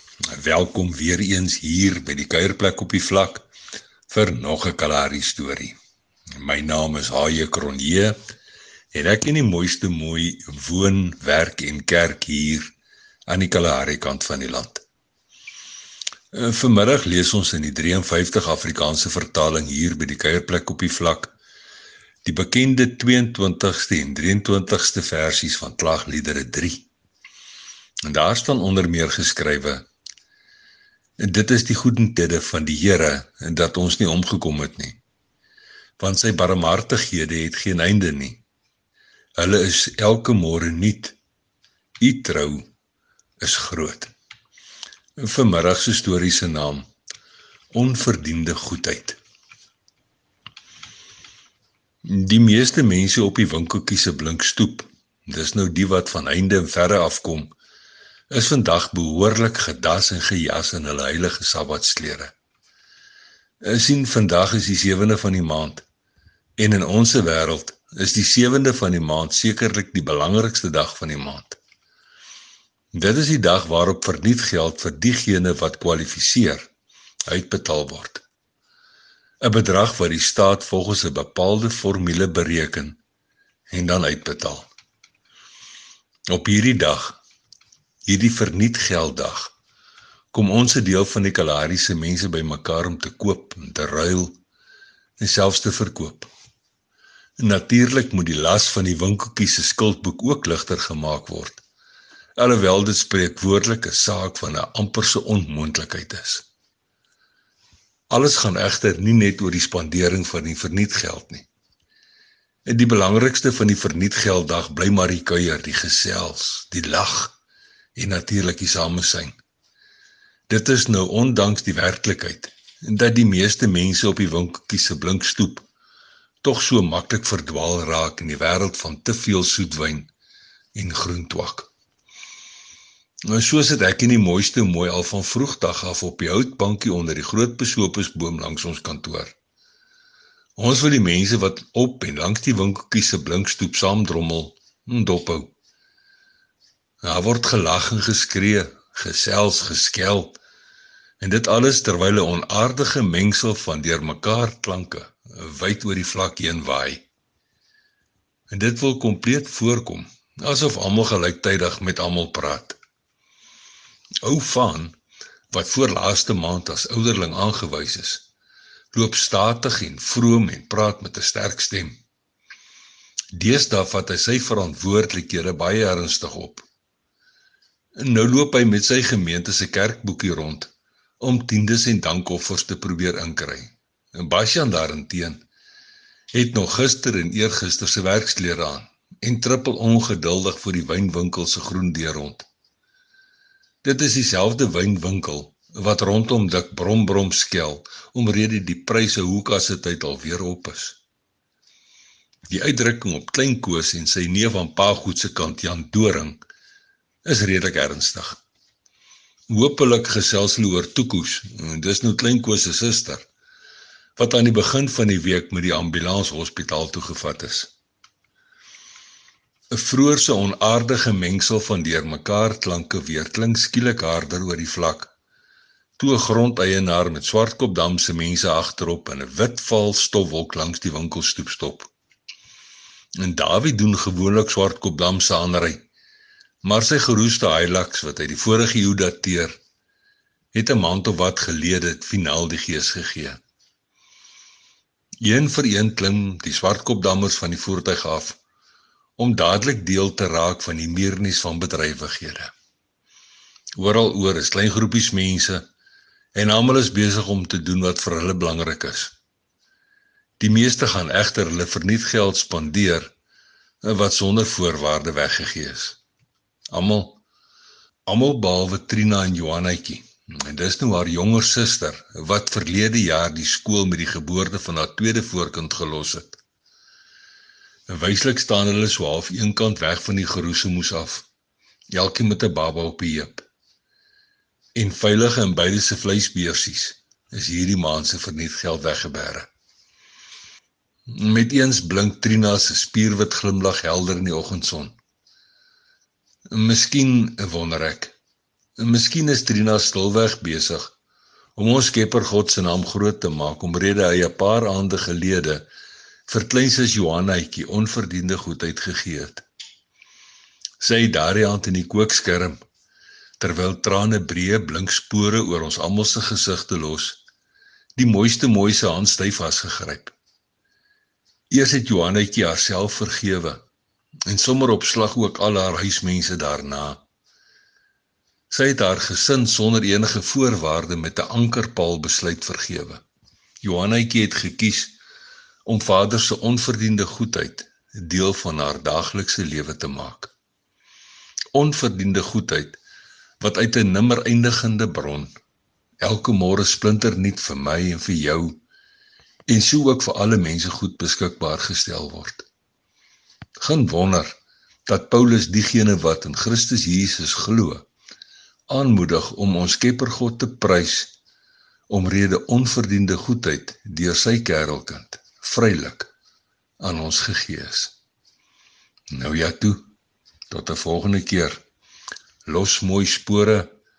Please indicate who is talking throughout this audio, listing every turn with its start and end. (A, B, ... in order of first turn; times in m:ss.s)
0:00.3-0:03.4 A
0:04.1-0:05.8 A
0:06.4-0:08.2 A
0:08.9-0:12.7 A
0:13.3-0:14.8 A
0:16.3-0:21.3 A
0:22.2-0:26.9 A
0:28.0-0:29.8 A
0:31.2-0:35.0 A
0:36.0-0:38.4 A
0:39.4-0:41.2 A
0:42.0-0:42.6 A
0:43.4-0:44.1 A
0:45.2-0:46.9 A
0:47.7-0:49.2 A
0:52.0-0:57.5 A
0:58.3-1:02.3 A
1:03.6-1:05.8 A
1:06.6-1:11.6 A
1:12.9-1:16.7 A
1:17.3-1:18.2 A
1:19.4-1:23.0 A
1:23.7-1:24.7 A
1:26.3-1:27.2 A
1:28.0-1:29.5 A
1:30.3-1:34.4 A
1:35.2-1:36.3 A
1:37.4-1:41.6 A
1:42.4-1:46.4 A
1:48.1-1:51.5 A
1:52.6-1:57.4 A
1:58.0-1:59.4 A
2:00.5-2:05.6 A
2:06.4-2:10.1 A
2:10.7-2:11.7 A
2:13.3-2:19.3 A
2:20.6-2:25.5 A
2:27.0-2:30.4 A
2:31.2-2:37.0 A
2:38.5-2:42.8 A
2:44.2-2:45.0 A
2:45.5-2:48.2 A
2:48.9-2:52.0 A
2:53.3-2:56.6 A
2:58.0-3:05.4 A
3:06.3-3:12.4 A
3:13.8-3:21.0 A
3:22.5-3:26.4 A
3:27.2-3:28.4 A
3:29.5-3:33.3 A
3:34.2-3:37.7 A
3:39.7-3:45.1 A
3:46.0-3:51.9 A
3:53.2-3:55.8 A
3:56.6-3:59.6 A
4:00.5-4:03.4 A
4:05.2-4:08.4 A
4:09.2-4:12.5 A
4:13.8-4:15.6 A
4:16.3-4:19.1 A
4:20.4-4:23.1 A
4:23.8-4:26.0 A
4:26.7-4:27.2 A
4:28.0-4:36.4 A
4:37.9-4:41.2 A
4:41.9-4:43.4 A
4:44.7-4:49.5 A
4:51.1-4:55.0 A
4:56.5-4:58.1 A
4:58.8-5:00.9 A
5:01.6-5:05.6 A
5:06.3-5:09.4 A
5:10.8-5:12.6 A
5:13.4-5:17.2 A
5:18.0-5:20.1 A
5:21.5-5:23.6 A
5:24.2-5:27.0 A
5:28.5-5:33.0 A
5:33.6-5:34.9 A
5:35.6-5:40.3 A
5:41.5-5:42.8 A
5:43.4-5:45.3 A
5:46.0-5:48.6 A
5:49.5-5:52.4 A
5:53.6-5:54.3 A
5:54.8-5:57.8 A
5:58.7-6:01.1 A
6:01.9-6:06.1 A
6:06.8-6:07.9 A
6:09.1-6:09.8 A
6:10.5-6:11.6 A
6:12.4-6:13.7 A